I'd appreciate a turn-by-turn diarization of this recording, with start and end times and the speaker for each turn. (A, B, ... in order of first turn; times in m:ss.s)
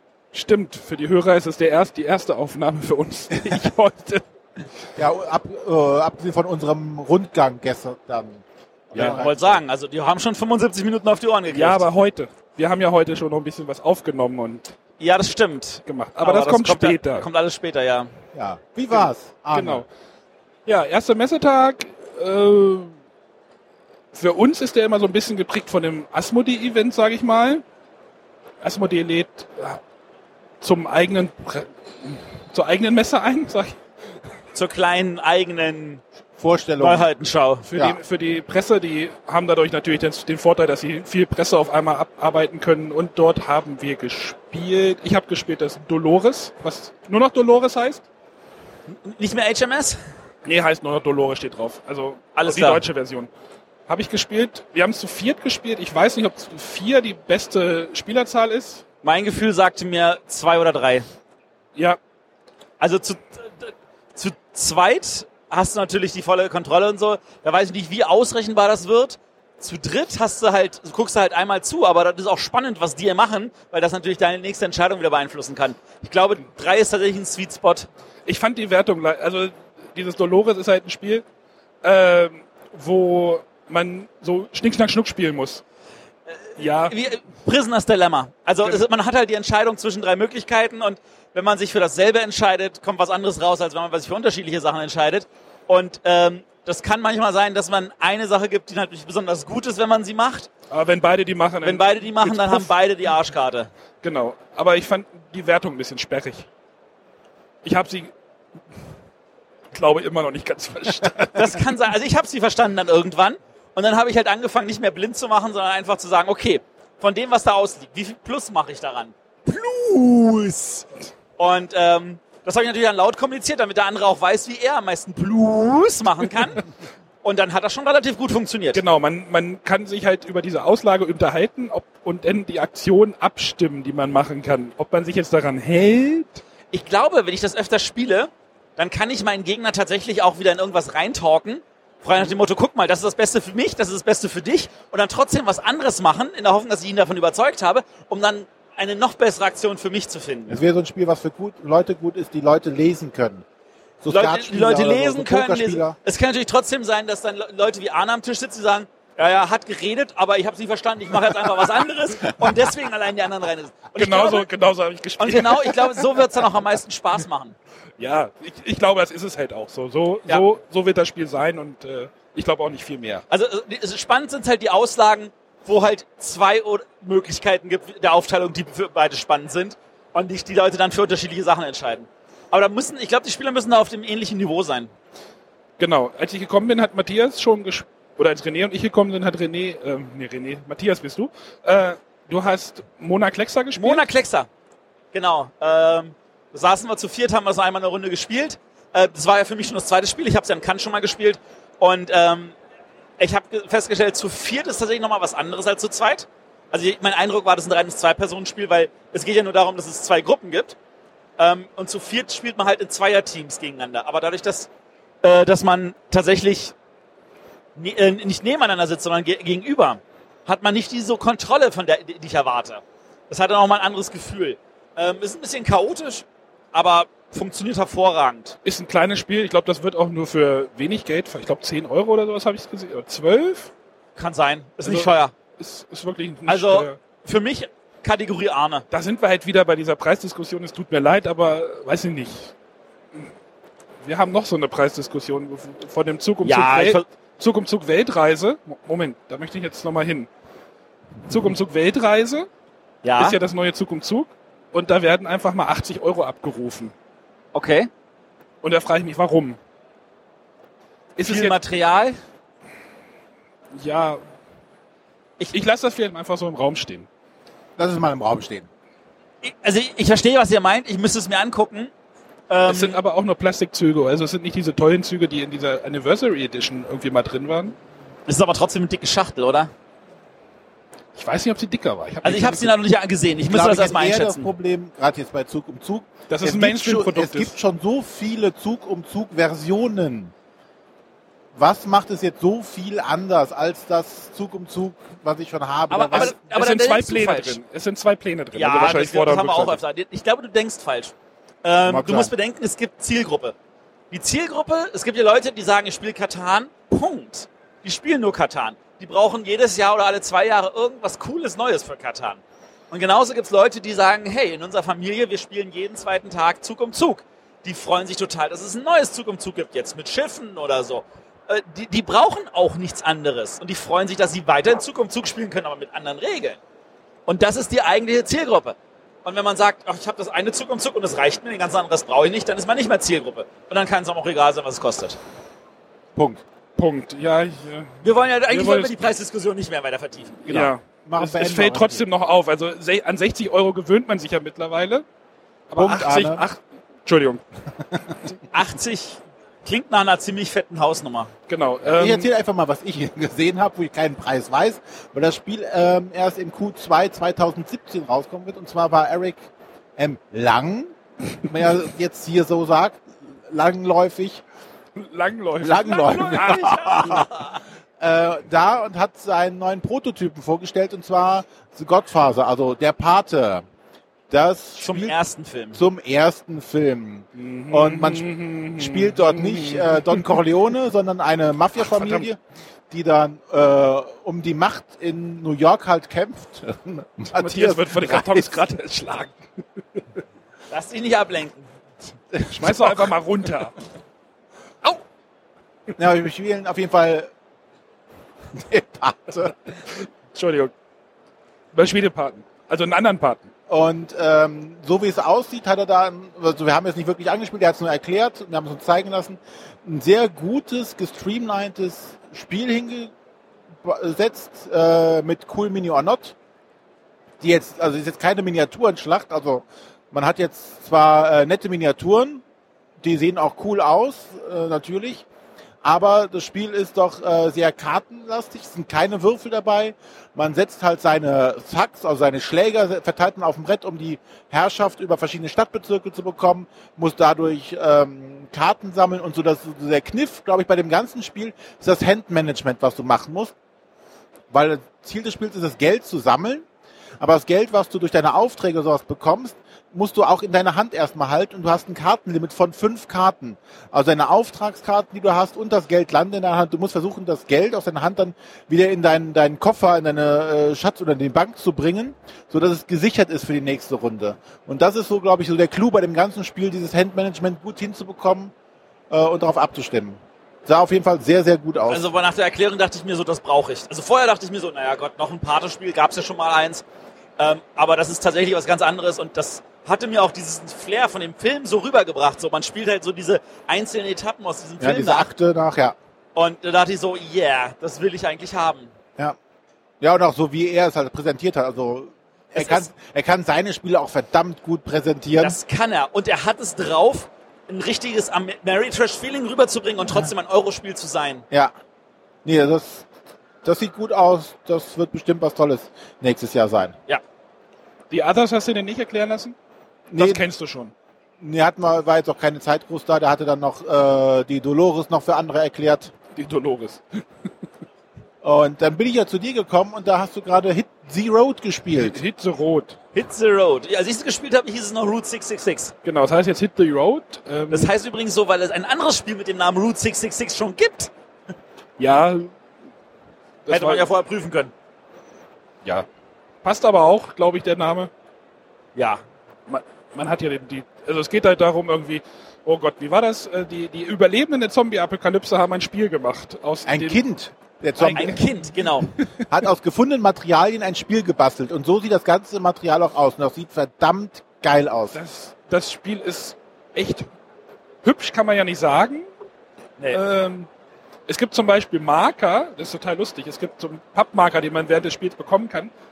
0:00.3-0:04.2 A
0:05.0-0:09.6 B
0:08.9-0:09.2 A
0:09.0-0:11.8 C
0:11.5-0:14.6 A
0:15.0-0:18.1 C
0:15.9-0:17.3 A
0:18.3-0:19.8 B
0:18.9-0:19.9 A
0:20.7-0:22.9 A
0:24.1-0:27.6 A
0:28.6-0:29.8 A
0:30.6-0:33.8 A
0:34.6-0:36.0 C
0:36.4-0:37.1 B
0:36.8-0:37.7 C
0:37.6-0:48.1 A
0:48.9-0:50.0 C
0:50.4-0:53.3 A
0:52.3-0:52.8 C
0:53.9-0:58.8 A
0:59.0-1:01.1 C
1:02.8-1:17.9 C
1:18.3-1:21.2 A
1:21.8-1:25.6 A
1:26.3-1:40.5 C
1:26.6-1:27.0 A
1:40.7-1:42.7 A
1:41.6-1:43.7 C
1:44.0-1:46.5 A
1:47.6-1:48.1 A
1:49.7-1:51.7 A
1:51.3-2:06.6 C
2:07.2-2:08.8 C
2:08.7-2:16.4 A
2:16.7-2:30.6 C
2:30.5-2:33.4 B
2:34.0-2:36.0 B
2:34.1-2:44.5 C
2:44.0-2:46.2 A
2:45.2-2:47.6 C
2:48.0-2:53.2 A
2:53.3-3:04.9 C
3:05.8-3:14.1 A
3:13.8-3:14.5 C
3:15.1-3:22.6 C
3:23.2-3:30.8 C
3:31.4-3:34.7 C
3:35.2-3:36.7 C
3:37.8-3:48.6 C
3:48.6-3:53.7 A
3:54.2-3:55.3 C
3:54.8-3:57.0 A
3:56.5-3:58.9 C
3:58.9-4:02.5 A
4:04.0-4:10.3 A
4:06.4-4:07.1 C
4:11.3-4:12.5 A
4:13.0-4:13.4 C
4:13.2-4:16.9 A
4:17.5-4:17.9 C
4:18.6-4:19.6 A
4:21.2-4:21.6 A
4:21.2-4:22.2 C
4:23.7-4:24.2 A
4:25.5-4:27.1 A
4:27.8-4:28.7 B
4:29.4-4:31.9 C
4:32.5-4:33.0 C
4:32.7-4:37.8 A
4:38.3-4:39.7 C
4:41.1-4:42.8 A
4:42.2-4:44.5 C
4:43.5-4:50.3 B
4:46.3-4:47.5 A
4:51.6-4:56.3 B
4:55.9-4:57.6 C
4:56.1-4:59.8 A
4:58.5-5:03.6 C
5:01.9-5:02.3 B
5:04.1-5:26.6 C
5:27.3-5:35.2 C
5:36.2-5:36.4 B
5:36.8-5:39.0 A
5:38.0-5:40.5 C
5:40.4-5:45.0 A
5:40.5-5:42.0 B
5:45.7-5:47.4 A
5:45.8-5:46.4 B
5:48.5-5:51.3 C
5:51.5-5:52.3 A
5:51.8-5:59.4 B
6:00.0-6:04.4 B
6:05.0-6:07.2 A
6:05.6-6:07.3 B
6:06.1-6:07.6 C
6:08.0-6:13.6 B
6:14.3-6:15.2 B
6:14.8-6:15.8 C
6:15.8-6:22.4 B
6:17.4-6:20.4 A
6:21.8-6:22.2 A
6:22.9-6:28.6 B
6:27.3-6:29.4 A
6:30.7-6:31.6 C
6:32.3-6:33.1 B
6:32.5-6:33.8 A
6:36.0-6:37.3 B
6:38.5-6:39.6 B
6:40.3-6:40.7 A
6:41.7-6:43.5 A
6:43.7-6:53.1 B
6:53.8-6:56.3 B
6:57.4-7:02.4 B
7:03.0-7:05.2 B
7:05.8-7:23.5 B
7:24.5-7:26.6 B
7:27.2-7:48.5 B
7:49.1-7:52.0 B
7:51.9-7:56.8 C
7:57.4-8:05.3 C
8:04.8-8:06.0 B
8:06.3-8:08.9 C
8:10.0-8:15.6 B
8:12.6-8:12.9 C
8:15.4-8:21.4 C
8:22.4-8:23.0 B
8:23.6-8:26.9 B
8:28.1-8:29.5 A
8:30.1-8:30.4 B
8:30.2-8:30.9 A
8:31.4-8:36.1 B
8:36.3-8:37.0 A
8:38.4-8:42.2 B
8:42.0-8:43.0 A
8:43.1-8:45.9 C
8:46.0-8:47.9 A
8:47.7-8:51.1 C
8:52.0-8:52.5 A
8:53.6-8:54.1 A
8:53.7-8:54.7 C
8:56.6-8:58.1 A
8:59.0-8:59.2 C
8:59.7-9:07.2 A
9:06.9-9:08.4 B
9:08.0-9:08.9 A
9:08.1-9:09.1 C
9:09.5-9:15.2 B
9:15.1-9:17.3 A
9:18.0-9:19.3 A
9:20.1-9:20.7 A
9:21.3-9:25.9 A